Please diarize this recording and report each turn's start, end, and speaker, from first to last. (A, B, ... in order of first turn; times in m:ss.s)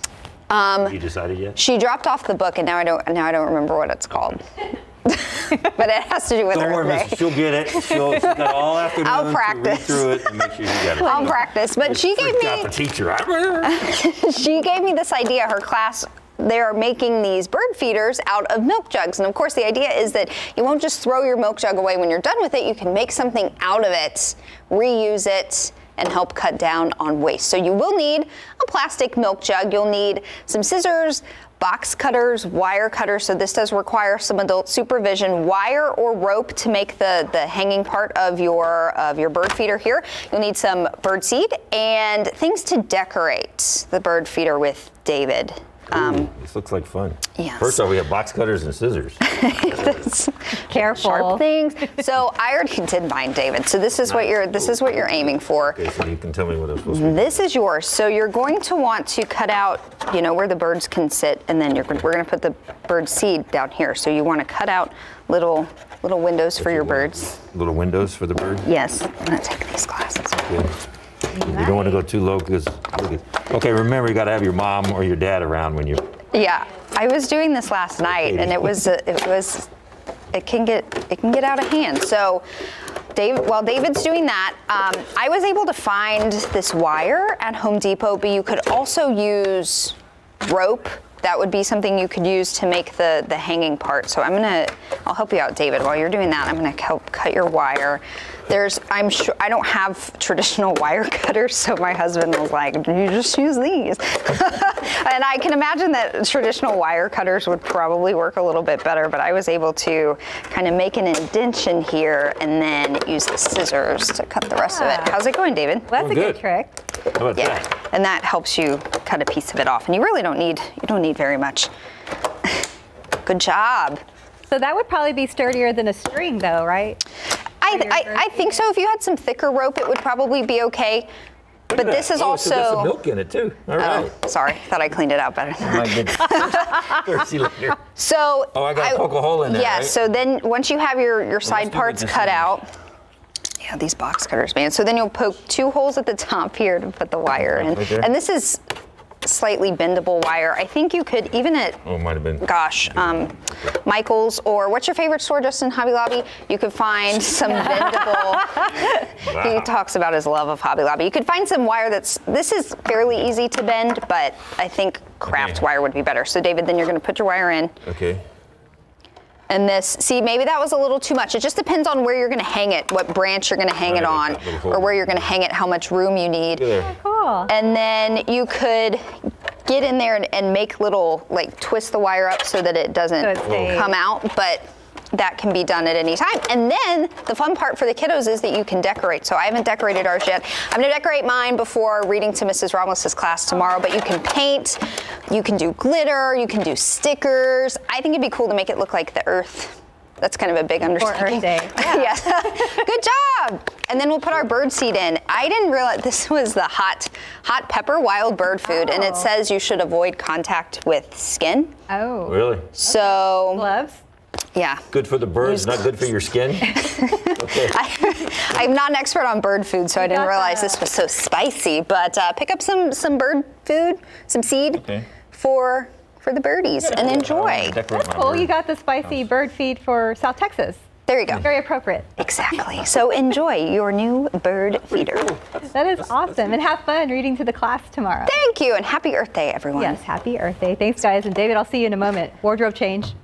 0:00.5-0:01.0 A
0:00.8-0:01.6 B
0:01.6-0:04.4 A
0:05.1-0:07.3 A
0:06.5-0:13.8 B
0:07.9-0:12.7 A
0:11.0-0:11.4 C
0:13.6-0:46.3 A
0:45.9-0:50.0 B
0:47.4-0:47.8 A
0:49.2-0:55.8 A
0:50.7-0:51.4 C
0:54.0-0:57.3 B
0:56.9-1:07.4 A
1:06.6-1:08.7 B
1:08.6-1:10.4 A
1:10.3-1:10.8 B
1:11.3-1:12.0 C
1:11.4-1:16.1 B
1:16.3-1:19.7 A
1:18.1-1:18.7 B
1:20.3-1:22.4 A
1:23.2-1:55.9 A
1:54.6-1:55.1 C
1:55.9-1:56.8 C
1:56.0-1:56.4 B
1:57.2-1:57.7 B
1:57.4-2:01.7 A
2:03.2-2:04.0 A
2:04.5-2:07.0 C
2:07.6-2:11.1 A
2:07.7-2:08.6 C
2:11.7-2:14.1 B
2:11.7-2:13.0 A
2:13.8-2:16.8 A
2:15.6-2:17.8 B
2:17.9-2:22.7 A
2:18.5-2:20.0 B
2:21.4-2:22.6 B
2:23.6-2:28.6 A
2:27.5-2:28.1 B
2:29.2-2:47.8 A
2:31.8-2:33.2 B
2:39.2-2:39.7 B
2:45.3-2:45.6 B
2:47.8-2:48.2 B
2:49.5-2:56.8 A
2:53.8-2:55.4 B
2:56.6-2:56.9 B
2:56.9-2:57.5 C
2:57.5-2:59.0 A
2:59.7-3:04.6 A
3:03.2-3:03.9 C
3:03.5-3:03.8 B
3:05.1-3:31.7 A
3:20.9-3:22.7 C
3:28.6-3:29.3 C
3:31.9-3:34.0 C
3:32.3-3:32.7 B
3:32.7-3:33.7 A
3:34.6-3:34.9 A
3:34.9-3:37.8 B
3:35.4-3:35.8 A
3:36.8-3:47.8 A
3:40.0-3:40.8 C
3:44.8-3:45.1 B
3:46.8-3:48.5 B
3:47.9-3:50.8 C
3:51.1-3:51.5 A
3:51.4-3:52.1 C
3:52.2-3:55.4 A
3:54.9-3:56.2 B
3:55.7-3:58.4 C
3:58.2-4:00.0 A
3:59.8-4:03.2 C